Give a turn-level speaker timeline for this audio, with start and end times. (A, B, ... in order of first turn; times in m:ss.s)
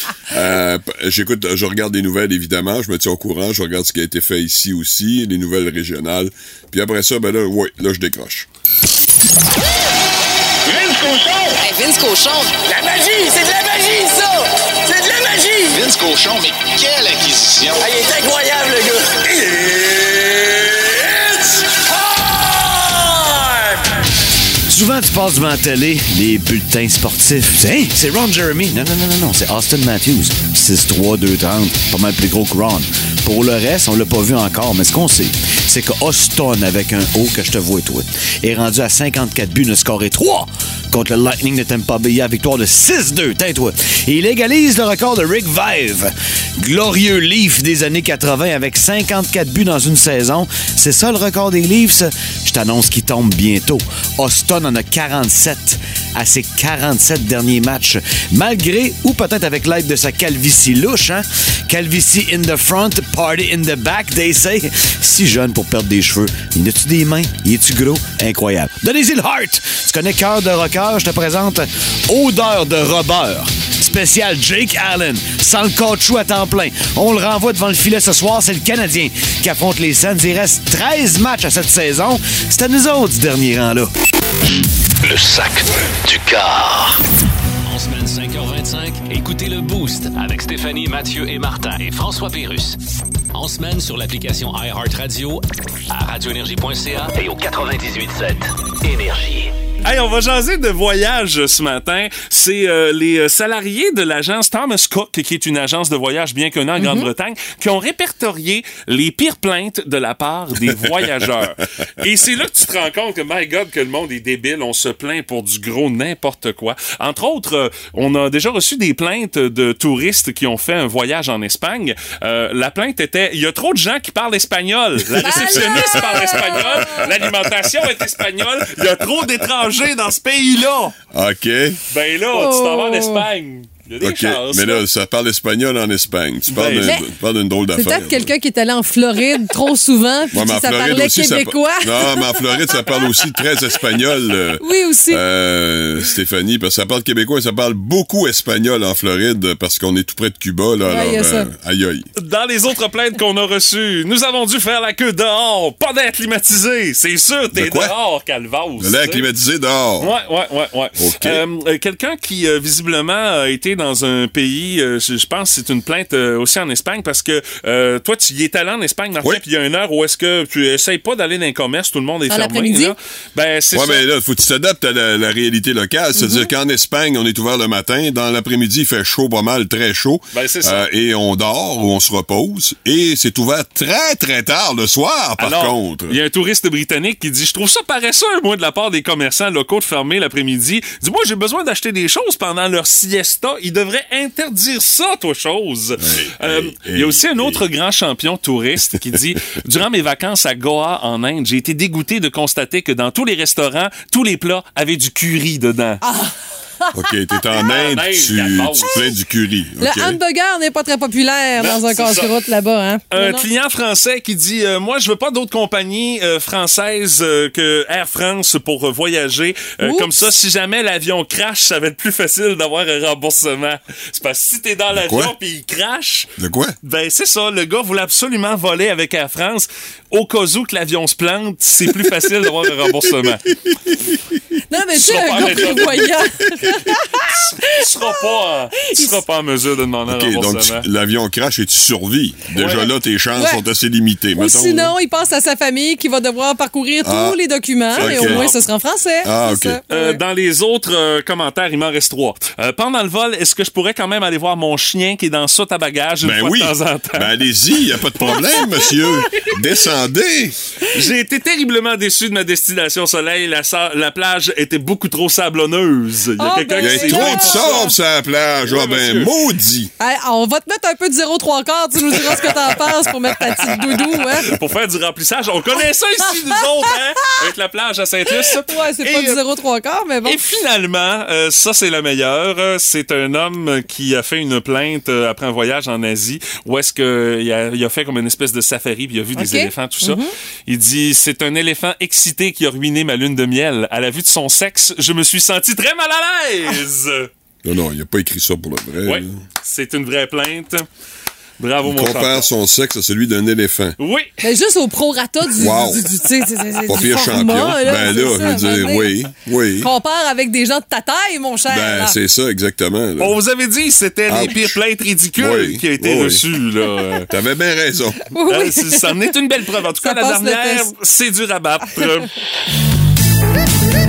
0:00.3-0:08.5 A
0:11.7-0:12.0 B
0:12.7-0:14.2 C
0:15.7-0:18.2 D
0:17.9-0:19.2 C
0:24.7-1:23.9 E
1:25.0-1:26.9 D
1:27.6-1:32.8 F
1:33.3-1:39.5 F
1:39.8-2:11.0 G
1:46.8-1:47.1 B
2:05.2-2:07.1 B
2:11.1-2:11.8 A
2:11.9-2:14.8 G
2:12.3-2:13.2 B
2:14.0-2:18.3 A
2:16.5-2:17.0 G
2:17.8-2:23.2 B
2:20.3-2:32.1 A
2:24.6-2:25.2 B
2:30.9-2:31.5 B
2:32.2-2:39.3 G
2:37.5-2:38.0 A
2:38.8-2:40.1 A
2:40.0-2:54.0 G
2:41.0-2:41.4 A
2:52.3-2:53.0 B
2:53.7-3:06.2 A
2:56.2-2:56.5 B
3:00.3-3:00.9 G
3:05.4-3:26.0 G
3:16.0-3:17.6 A
3:26.0-3:27.1 B
3:26.9-3:30.2 A
3:27.5-3:29.1 G
3:29.8-3:33.5 B
3:31.6-3:32.3 G
3:33.1-3:46.3 G
3:39.8-3:40.2 B
3:44.9-3:45.4 A
3:46.4-3:46.7 A
3:46.8-3:53.5 G
3:54.7-3:58.2 B
3:55.0-3:56.2 G
3:57.2-4:00.9 G
3:58.8-3:59.2 B
4:00.1-4:05.0 A
4:02.6-4:02.9 G
4:03.4-4:03.6 B
4:04.4-4:10.2 B
4:07.0-4:07.4 A
4:08.0-4:08.5 A
4:08.0-4:08.6 G
4:09.2-4:09.8 A
4:09.9-4:17.4 G
4:16.2-4:20.6 A
4:20.9-4:28.0 G
4:26.4-4:27.9 B
4:26.8-4:29.9 A
4:28.6-4:29.4 G
4:30.0-4:34.6 B
4:34.4-4:39.4 G
4:38.3-4:40.4 B
4:40.2-4:57.3 G
4:49.4-4:50.3 B
4:57.6-4:59.4 A
4:59.0-5:00.9 G
5:01.6-5:02.5 G
5:01.8-5:04.0 A
5:04.0-5:04.4 G
5:04.4-5:09.2 B
5:05.6-5:06.1 A
5:06.9-5:09.9 A
5:09.8-5:12.2 B
5:11.7-5:13.4 A
5:13.2-5:17.3 G
5:14.3-5:14.8 A
5:15.4-5:16.4 A
5:17.3-5:18.2 A
5:18.3-5:19.3 B
5:18.5-5:22.4 G
5:20.0-5:20.9 B